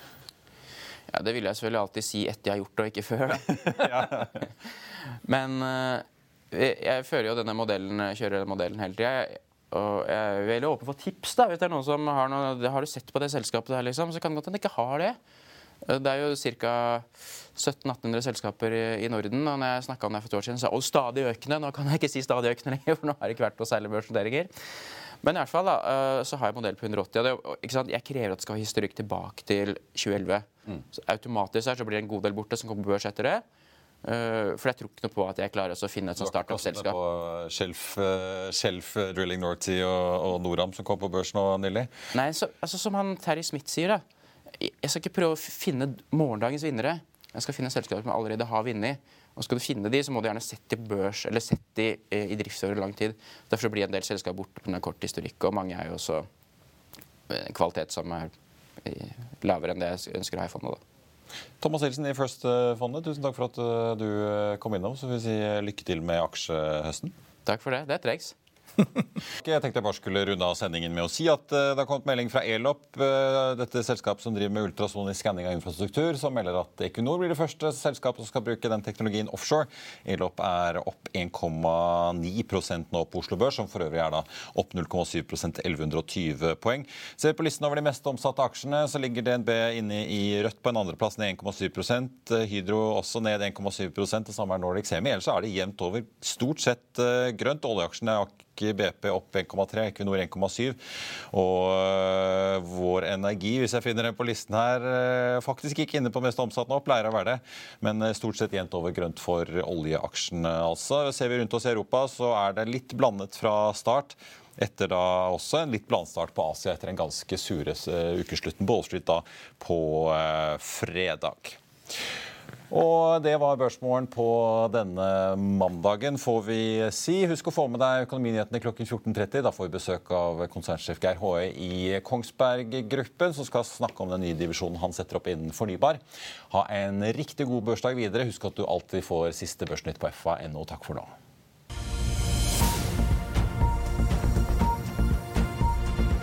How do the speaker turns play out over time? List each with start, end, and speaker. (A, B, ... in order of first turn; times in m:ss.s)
0:01.1-0:04.3 A
0:03.5-0:04.4 B
0:05.2-0:15.2 A
0:15.8-0:24.5 A
0:25.2-0:33.4 A
0:34.0-0:37.0 A
0:36.2-0:41.9 B
0:42.1-0:44.0 A
0:44.6-0:56.3 A
0:57.3-0:58.3 A
0:58.8-1:00.8 A
1:01.6-1:07.1 B
1:07.4-1:08.3 A
1:09.4-1:40.8 B
1:41.3-2:01.6 B
2:02.7-2:21.1 B